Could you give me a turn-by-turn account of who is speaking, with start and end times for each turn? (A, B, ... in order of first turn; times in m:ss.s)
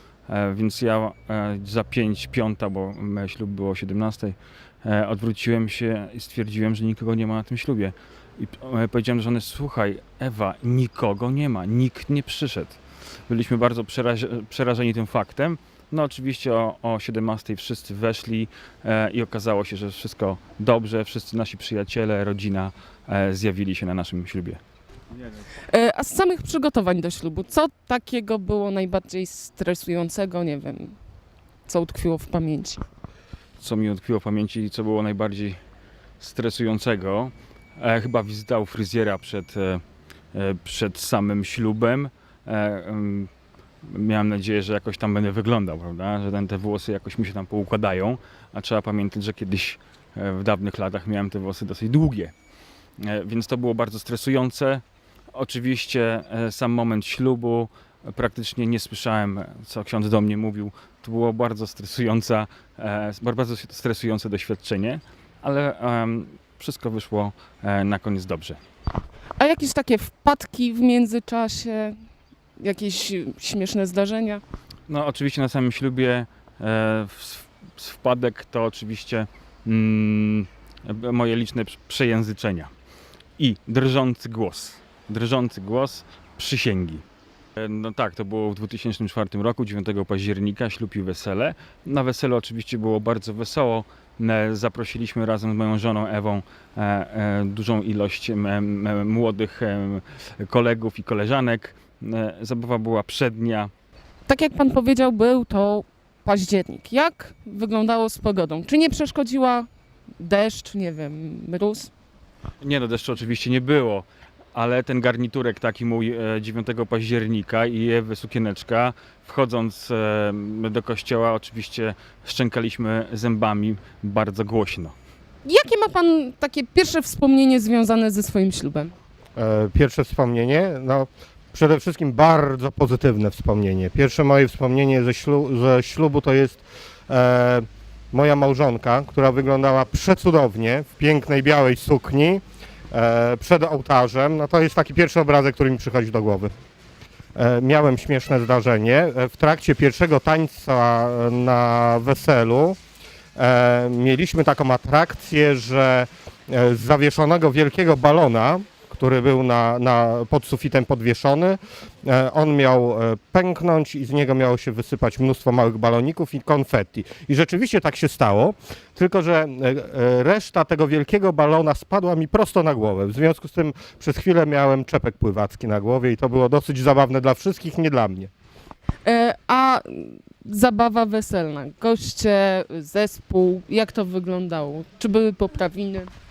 0:00.3-0:24.6 A
0:25.7-0:31.0 B
0:31.6-0:32.8 B
0:33.6-0:35.6 A
0:36.2-0:39.8 A
0:40.3-0:43.3 A
0:43.8-0:52.3 A
0:53.0-1:08.6 A
1:09.4-1:12.0 B
1:12.6-1:14.4 B
1:14.9-1:22.7 A
1:23.4-1:27.0 A
1:27.6-1:43.7 A
1:44.3-1:49.7 B
1:50.2-1:51.9 B
1:52.6-2:04.9 A
2:05.4-2:08.9 B
2:09.4-2:26.5 C
2:27.4-2:32.8 C
2:33.4-2:58.3 C
2:59.0-3:06.1 B